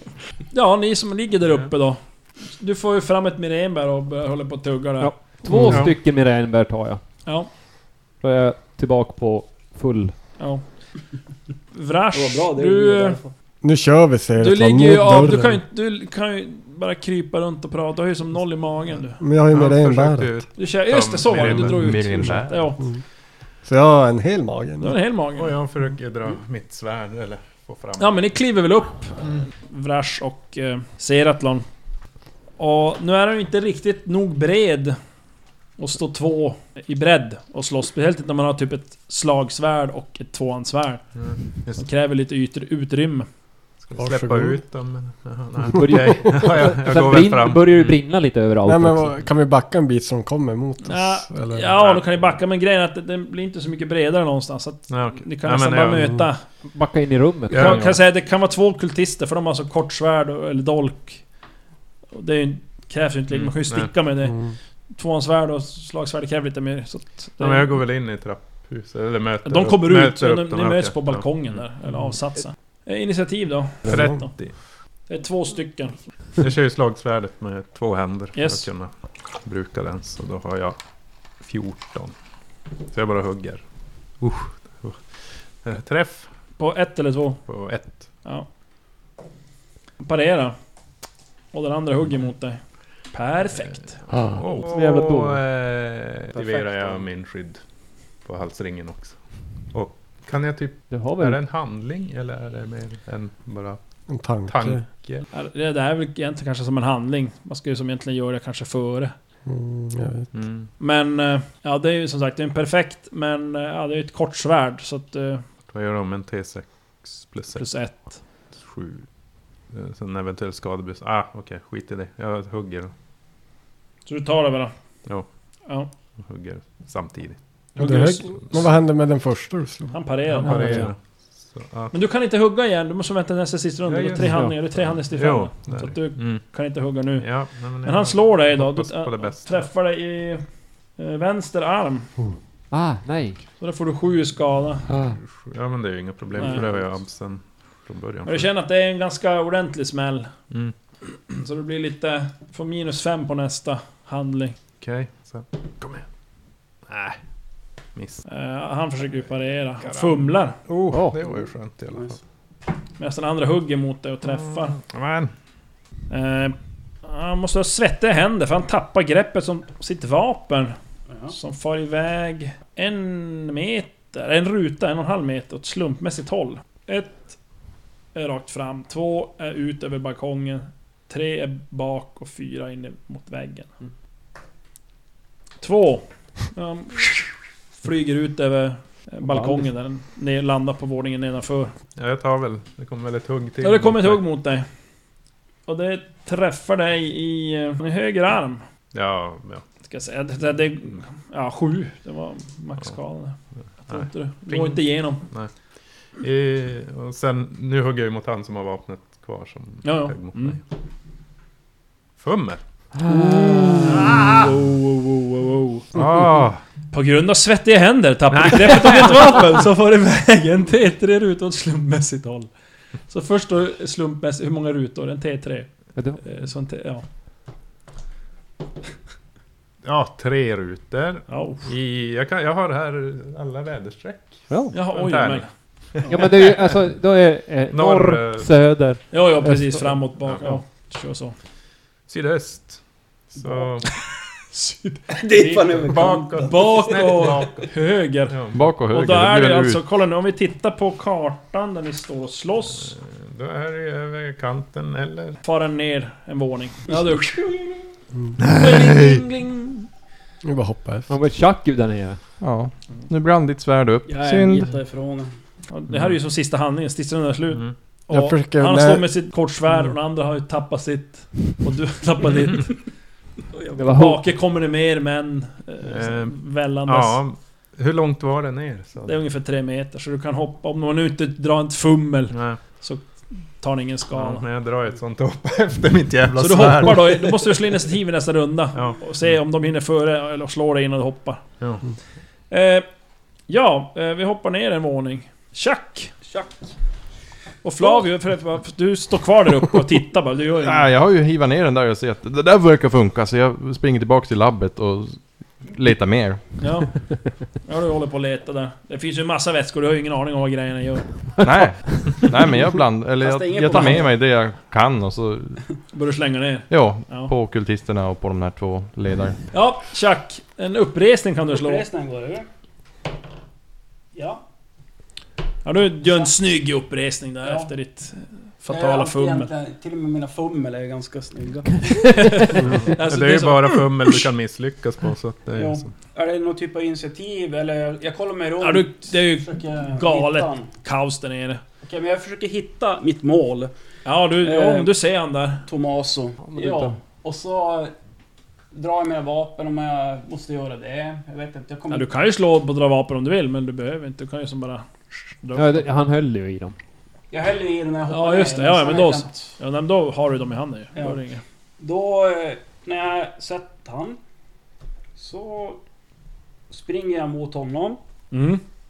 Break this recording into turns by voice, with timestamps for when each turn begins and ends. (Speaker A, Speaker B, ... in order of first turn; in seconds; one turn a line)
Speaker A: 0.5-5.1
Speaker B: 5.0-7.0
Speaker C: 5.5-5.8
Speaker D: 5.6-6.0
Speaker A: 7.2-7.5
Speaker B: 8.2-10.3
Speaker A: 10.4-10.6
Speaker A: 11.7-13.2
Speaker E: 12.1-13.3
Speaker C: 13.6-15.6
Speaker A: 14.4-19.2
Speaker C: 19.2-20.4
Speaker D: 19.5-22.3
Speaker A: 20.6-22.8
Speaker F: 21.3-22.5
Speaker C: 23.6-25.0
Speaker A: 24.8-25.5
Speaker D: 25.4-28.2
Speaker A: 28.0-31.6
Speaker A: 32.6-35.0
Speaker A: 35.8-41.2
Speaker D: 41.1-41.8
Speaker A: 41.8-43.3
Speaker D: 43.8-48.0
Speaker C: 44.0-44.6
Speaker B: 45.7-49.2
Speaker C: 48.6-51.7
Speaker A: 50.8-56.4
Speaker D: 51.8-52.3
Speaker D: 54.9-56.1
Speaker B: 56.6-58.0
Speaker A: 57.5-61.2
Speaker D: 57.5-57.9
Speaker A: 62.1-67.7
Speaker D: 63.3-63.9
Speaker C: 64.2-64.5
Speaker D: 67.4-71.5
Speaker A: 69.4-74.3
Speaker D: 73.8-74.6
Speaker A: 75.1-76.0
Speaker D: 76.4-80.8
Speaker A: 78.3-78.7
Speaker D: 81.4-82.1
Speaker D: 82.9-83.6
Speaker D: 84.2-86.3
Speaker A: 86.6-87.4
Speaker D: 87.5-88.1
Speaker A: 90.0-90.5
Speaker A: 91.5-94.0
Speaker D: 94.0-97.6
Speaker B: 94.1-95.4
Speaker D: 98.2-103.8
Speaker B: 100.9-101.4
Speaker C: 104.1-104.8
Speaker D: 104.4-105.3
Speaker A: 105.3-109.1
Speaker C: 109.5-110.3
Speaker D: 110.3-110.7
Speaker A: 110.8-115.4
Speaker D: 115.7-117.9
Speaker A: 117.5-118.2
Speaker D: 118.5-119.1
Speaker D: 119.7-122.9
Speaker A: 124.0-124.7
Speaker D: 126.2-127.4
Speaker A: 127.7-128.3
Speaker C: 127.8-129.9
Speaker A: 129.9-130.9
Speaker D: 130.3-131.9
Speaker B: 130.4-130.9
Speaker A: 131.9-137.3
Speaker D: 133.9-136.4
Speaker B: 134.2-134.6
Speaker D: 137.2-139.7
Speaker A: 137.8-140.4
Speaker A: 140.9-142.1
Speaker B: 142.7-143.4
Speaker A: 143.6-144.8
Speaker B: 144.9-145.2
Speaker D: 144.9-148.5
Speaker A: 146.4-146.7
Speaker A: 148.2-150.3
Speaker A: 151.3-154.6
Speaker D: 154.8-156.1
Speaker D: 156.9-157.2
Speaker D: 157.9-158.2
Speaker A: 158.2-160.6
Speaker D: 159.8-162.2
Speaker B: 160.9-161.2
Speaker A: 163.0-164.8
Speaker D: 164.2-165.3
Speaker A: 166.1-170.8
Speaker A: 171.3-177.4
Speaker A: 178.1-183.7
Speaker A: 185.6-191.7
Speaker B: 189.2-189.7
Speaker D: 191.9-194.2
Speaker A: 193.6-194.7
Speaker A: 195.7-198.6
Speaker D: 198.9-199.6
Speaker A: 199.9-205.2
Speaker D: 203.9-205.5
Speaker D: 206.2-210.6
Speaker A: 209.8-210.6
Speaker D: 212.2-212.6
Speaker B: 212.9-214.2
Speaker A: 213.1-215.9
Speaker D: 213.9-214.5
Speaker D: 215.9-216.6
Speaker A: 216.9-222.5
Speaker D: 218.3-219.3
Speaker A: 223.1-227.0
Speaker D: 229.8-236.7
Speaker A: 231.3-231.6
Speaker B: 234.5-234.7
Speaker A: 234.7-235.5
Speaker B: 236.1-239.9
Speaker D: 237.7-238.5
Speaker A: 239.1-241.3
Speaker D: 242.1-243.9
Speaker A: 244.5-248.3
Speaker E: 245.1-247.5
Speaker D: 245.8-247.7
Speaker D: 248.3-248.6
Speaker F: 248.5-249.8
Speaker A: 248.9-252.9
Speaker D: 252.8-255.4
Speaker A: 255.4-257.8
Speaker E: 256.9-257.4
Speaker D: 258.4-259.2
Speaker A: 258.5-259.9
Speaker C: 260.4-261.1
Speaker B: 261.1-262.2
Speaker F: 262.4-264.7
Speaker A: 264.2-264.7
Speaker E: 264.2-265.3
Speaker A: 265.7-272.8
Speaker C: 268.1-269.1
Speaker E: 273.5-273.8
Speaker B: 273.8-274.2
Speaker A: 273.9-277.2
Speaker D: 275.8-279.2
Speaker A: 279.0-284.4
Speaker D: 282.3-282.6
Speaker D: 284.1-287.5
Speaker A: 286.4-291.4
Speaker D: 291.6-291.8
Speaker A: 292.5-292.9
Speaker A: 293.5-296.1
Speaker E: 296.2-296.5
Speaker A: 297.6-300.9
Speaker F: 300.6-306.6
Speaker A: 306.6-311.1
Speaker F: 311.4-315.6
Speaker E: 313.2-314.2
Speaker A: 315.9-317.3
Speaker F: 316.7-319.4
Speaker A: 319.5-321.9
Speaker E: 321.5-322.5
Speaker E: 324.1-324.4
Speaker A: 325.6-329.5
Speaker E: 327.4-327.7
Speaker E: 328.7-332.6
Speaker A: 332.1-334.2
Speaker D: 332.6-335.9
Speaker E: 335.5-340.7
Speaker A: 338.6-341.6
Speaker E: 341.8-343.7
Speaker A: 344.0-345.6
Speaker E: 344.4-344.9
Speaker E: 345.7-347.9
Speaker B: 346.4-346.9
Speaker E: 348.7-352.1
Speaker A: 351.9-354.8
Speaker A: 355.4-355.9
Speaker B: 355.5-356.7
Speaker E: 357.3-359.5
Speaker A: 358.1-361.4
Speaker E: 361.8-364.2
Speaker E: 365.1-365.8
Speaker E: 366.7-368.0
Speaker A: 368.3-368.6